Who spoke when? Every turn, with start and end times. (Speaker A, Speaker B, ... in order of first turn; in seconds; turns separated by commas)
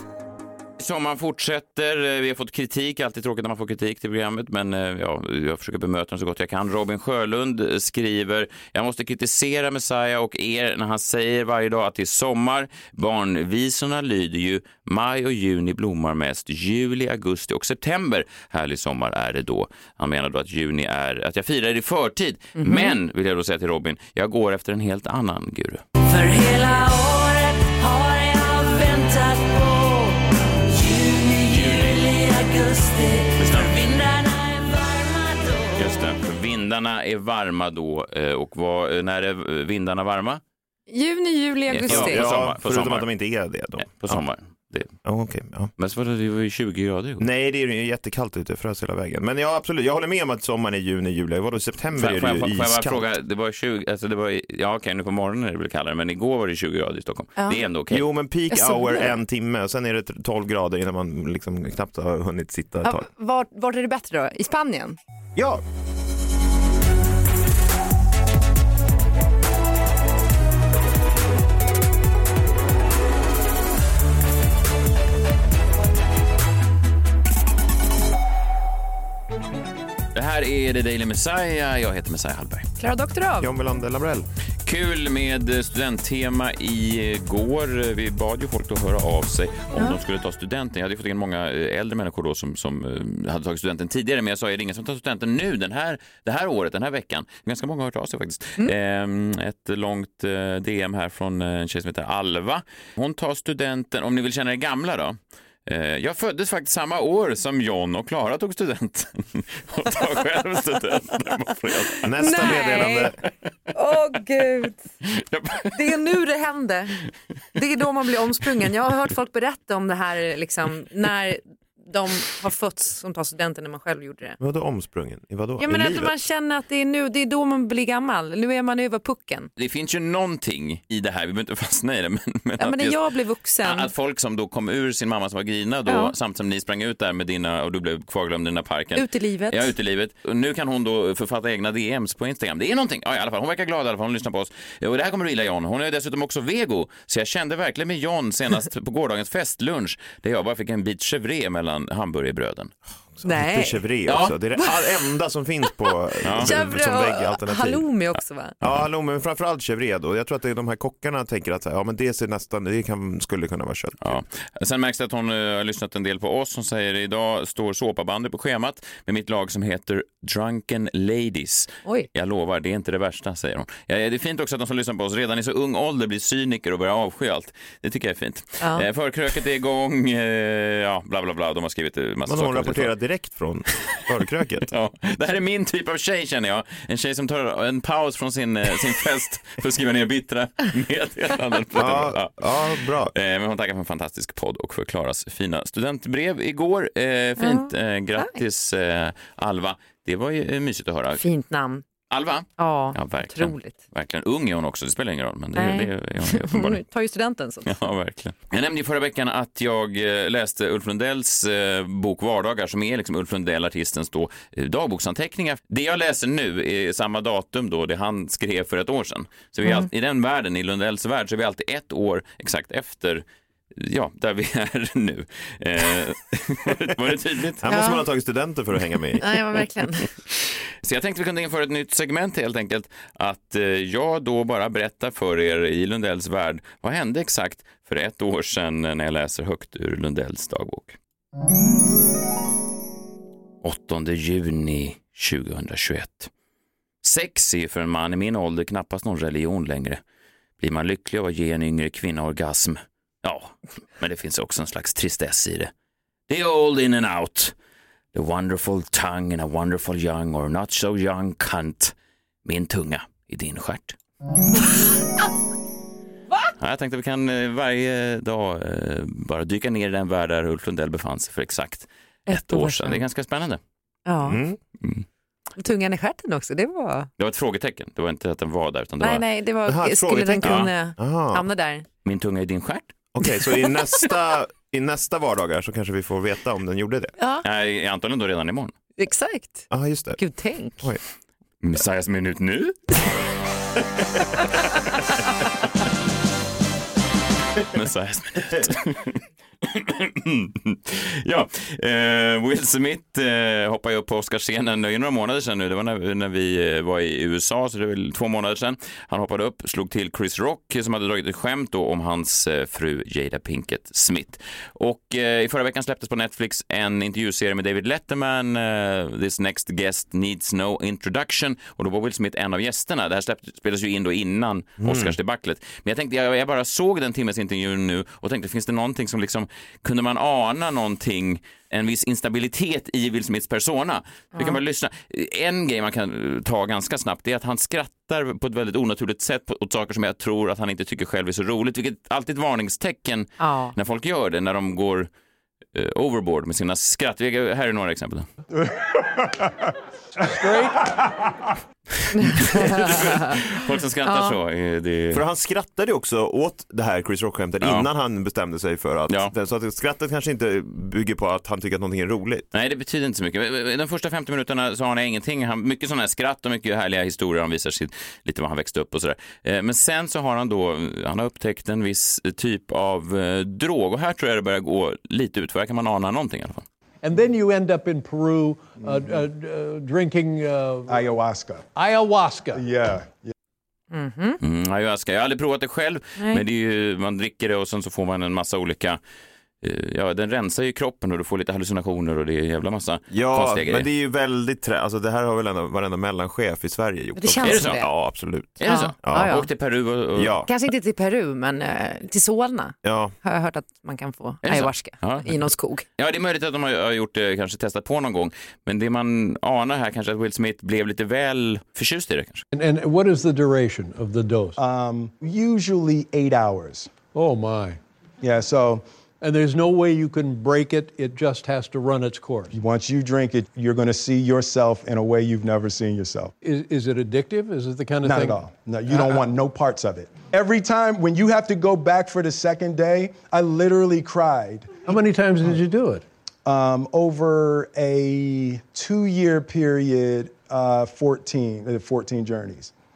Speaker A: 0.8-25.8, Speaker B: 22.6-22.9, Speaker C: 26.0-36.0, Speaker A: 33.4-33.8, Speaker A: 35.8-40.4, Speaker B: 40.9-42.2, Speaker A: 41.7-43.1, Speaker D: 41.8-44.2, Speaker A: 43.8-45.0, Speaker D: 45.0-45.7, Speaker A: 45.8-47.2, Speaker D: 47.2-53.1, Speaker A: 52.0-58.0, Speaker B: 57.4-57.7, Speaker D: 57.9-63.1, Speaker B: 58.5-59.1, Speaker B: 62.8-65.0, Speaker D: 65.3-65.6, Speaker A: 80.1-82.7, Speaker B: 82.8-83.5, Speaker D: 83.4-84.2, Speaker A: 84.6-112.6, Speaker D: 112.0-113.1, Speaker B: 112.2-113.2, Speaker B: 113.7-114.8, Speaker A: 115.0-115.7, Speaker B: 115.7-117.0, Speaker B: 117.5-124.4, Speaker D: 124.4-126.1, Speaker B: 125.6-129.5, Speaker A: 129.6-133.0, Speaker B: 132.6-133.9, Speaker A: 133.6-152.7, Speaker B: 135.8-136.1, Speaker B: 138.9-139.7, Speaker D: 153.2-157.9, Speaker B: 153.2-153.9, Speaker A: 154.1-154.3, Speaker B: 154.6-154.9, Speaker A: 156.2-156.6, Speaker B: 156.3-158.6, Speaker D: 158.6-164.0, Speaker A: 164.0-182.9, Speaker B: 178.6-178.8, Speaker D: 182.3-184.7, Speaker A: 184.6-201.2, Speaker D: 191.8-193.1, Speaker B: 197.4-198.4, Speaker B: 201.2-201.8, Speaker A: 202.1-206.8, Speaker B: 202.6-203.8, Speaker B: 205.5-207.7, Speaker A: 207.6-223.2, Speaker B: 219.6-219.9, Speaker A: 223.7-227.7, Speaker D: 227.6-229.2, Speaker B: 227.7-228.1, Speaker B: 229.2-230.2, Speaker A: 230.8-241.0, Speaker A: 243.6-246.3, Speaker A: 247.0-250.0, Speaker A: 250.6-255.7, Speaker A: 256.3-257.5, Speaker A: 258.1-261.9, Speaker A: 262.4-264.0, Speaker A: 266.6-273.6, Speaker B: 272.3-273.0, Speaker B: 274.0-274.4, Speaker D: 274.2-274.6, Speaker B: 275.6-277.1, Speaker A: 277.2-279.2, Speaker B: 279.0-281.9, Speaker D: 279.6-281.4, Speaker A: 280.4-280.7, Speaker A: 282.0-282.9, Speaker D: 283.1-287.1, Speaker B: 287.2-287.4, Speaker A: 287.4-288.7, Speaker B: 289.0-290.9, Speaker D: 289.7-290.2, Speaker A: 291.6-292.9, Speaker A: 297.7-345.1, Speaker D: 324.8-325.1, Speaker B: 334.3-334.6, Speaker B: 343.4-343.7, Speaker A: 345.7-348.2, Speaker E: 348.6-349.5, Speaker F: 350.2-350.9, Speaker A: 352.0-355.2, Speaker B: 352.2-352.9, Speaker B: 354.0-354.4, Speaker D: 355.1-362.5, Speaker A: 357.6-357.9, Speaker A: 359.1-359.3, Speaker A: 362.5-376.6, Speaker F: 377.0-381.0, Speaker E: 380.9-381.7, Speaker F: 381.7-382.6, Speaker E: 382.5-383.3, Speaker B: 383.9-384.4, Speaker A: 384.4-389.0, Speaker B: 386.2-386.4, Speaker A: 389.6-393.9, Speaker D: 393.1-399.4, Speaker B: 397.1-397.9, Speaker A: 397.4-397.9, Speaker B: 398.6-399.5, Speaker A: 398.6-400.4, Speaker D: 400.1-400.5, Speaker B: 400.4-405.8, Speaker D: 402.8-403.1, Speaker A: 404.4-405.3, Speaker A: 406.0-412.4, Speaker F: 412.5-414.6, Speaker E: 414.6-416.9, Speaker F: 417.1-417.8, Speaker E: 418.2-418.8, Speaker F: 419.2-422.5, Speaker E: 422.5-426.3, Speaker F: 426.4-429.2, Speaker E: 428.0-434.8, Speaker F: 434.9-436.0, Speaker E: 436.4-442.7